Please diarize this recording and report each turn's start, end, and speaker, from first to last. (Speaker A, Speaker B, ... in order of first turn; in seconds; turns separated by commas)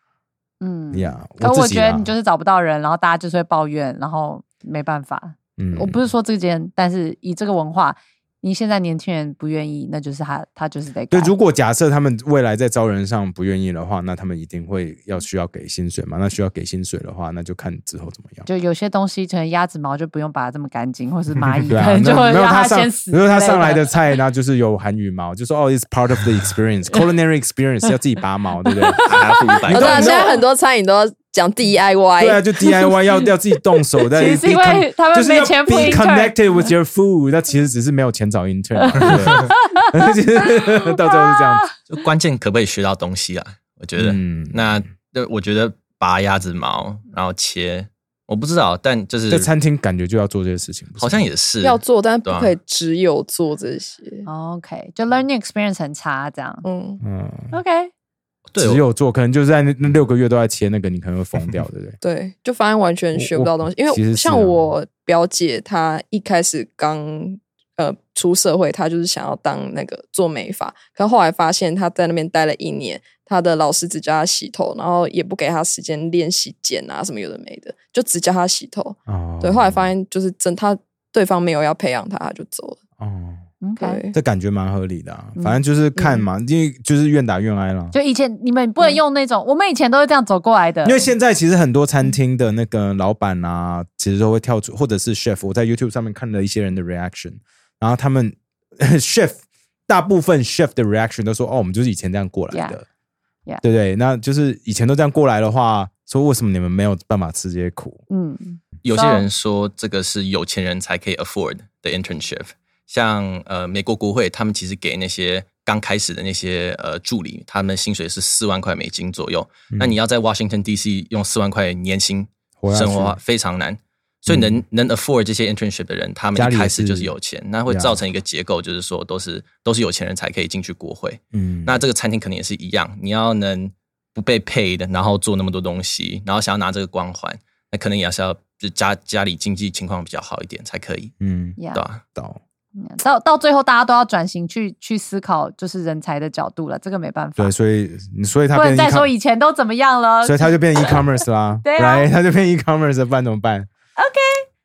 Speaker A: 0.6-11.3, Speaker B: 0.9-2.1, Speaker B: 5.6-6.0, Speaker B: 11.1-18.5, Speaker A: 18.5-23.9, Speaker B: 21.7-29.1, Speaker A: 28.7-30.4, Speaker C: 29.0-30.1, Speaker B: 29.6-30.3, Speaker D: 29.7-32.9, Speaker B: 32.2-41.7, Speaker A: 34.1-36.4, Speaker A: 38.9-40.1, Speaker C: 39.0-39.3, Speaker A: 40.6-41.6, Speaker C: 41.9-49.5, Speaker B: 44.0-44.8, Speaker B: 49.3-51.3, Speaker C: 51.0-52.5, Speaker D: 51.6-54.3, Speaker A: 54.3-56.6, Speaker D: 56.6-57.0, Speaker B: 57.0-57.5, Speaker A: 57.5-57.9, Speaker C: 58.5-58.8, Speaker B: 58.6-62.0, Speaker D: 62.0-82.8, Speaker B: 63.2-64.7, Speaker B: 79.1-79.9, Speaker B: 83.0-83.4, Speaker A: 83.6-84.0, Speaker D: 83.8-84.2, Speaker B: 84.1-88.0, Speaker A: 85.4-86.3, Speaker A: 87.9-91.1, Speaker B: 90.8-102.8, Speaker A: 102.5-102.8, Speaker B: 103.6-108.0, Speaker A: 108.1-109.3, Speaker C: 108.8-141.1, Speaker B: 119.7-120.0, Speaker B: 122.6-123.2, Speaker B: 124.3-124.6, Speaker B: 126.3-127.1, Speaker B: 127.7-128.0, Speaker B: 131.3-131.8, Speaker B: 141.2-142.4, Speaker A: 141.6-141.8, Speaker C: 141.7-142.0, Speaker A: 142.8-147.5, Speaker B: 147.4-149.1, Speaker A: 148.5-151.0, Speaker B: 150.2-153.7, Speaker A: 151.6-152.1, Speaker A: 154.0-154.5